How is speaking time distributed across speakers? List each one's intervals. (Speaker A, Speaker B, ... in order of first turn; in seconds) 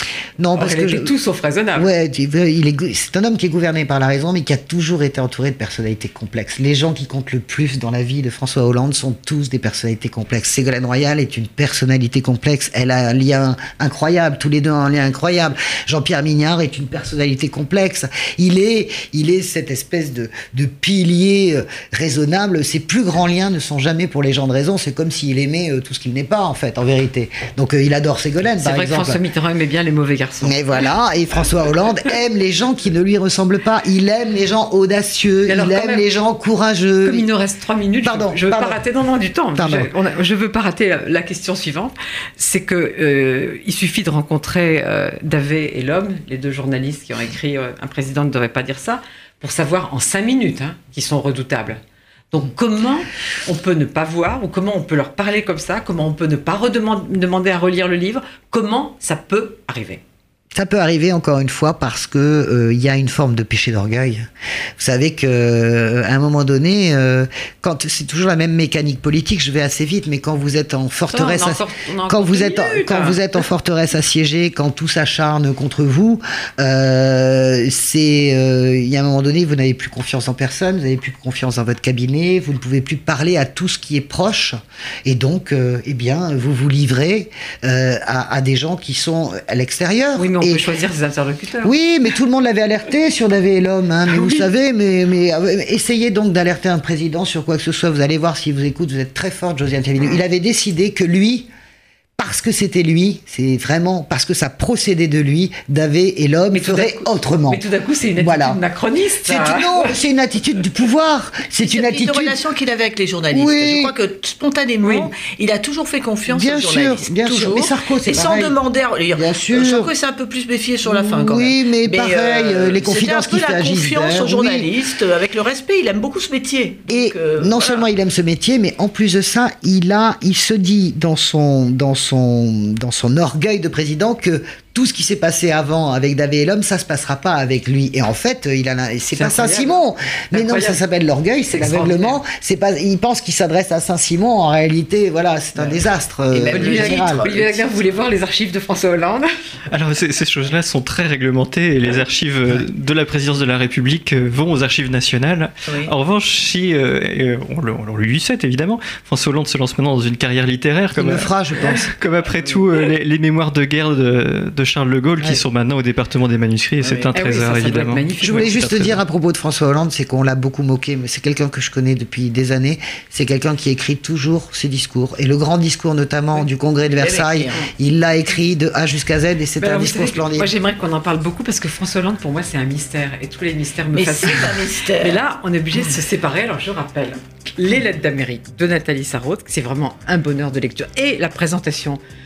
Speaker A: 0.4-1.1, 1.8-29.2, 30.4-37.3, 38.0-38.8, 39.5-39.9, 60.5-64.3, 64.8-90.6, 91.6-101.5, 102.2-107.6, 108.2-108.6, 109.2-112.4, 113.3-113.9, 116.3-118.5, 119.1-119.9, 120.8-124.7, 126.9-147.3, 160.9-161.9, 168.2-180.5
Speaker B: 0.6-1.9, 28.6-30.6, 35.5-36.0, 37.0-51.8, 52.3-60.0, 71.1-73.2, 90.2-91.7, 94.1-94.4, 106.5-109.9, 114.8-115.1, 139.1-139.8, 140.3-140.8, 141.5-142.2, 146.5-149.3, 167.1-168.6, 179.6-192.0
Speaker C: 111.6-127.8, 146.3-147.9, 166.8-167.1, 176.4-177.6, 183.9-185.2
Speaker D: 149.7-169.0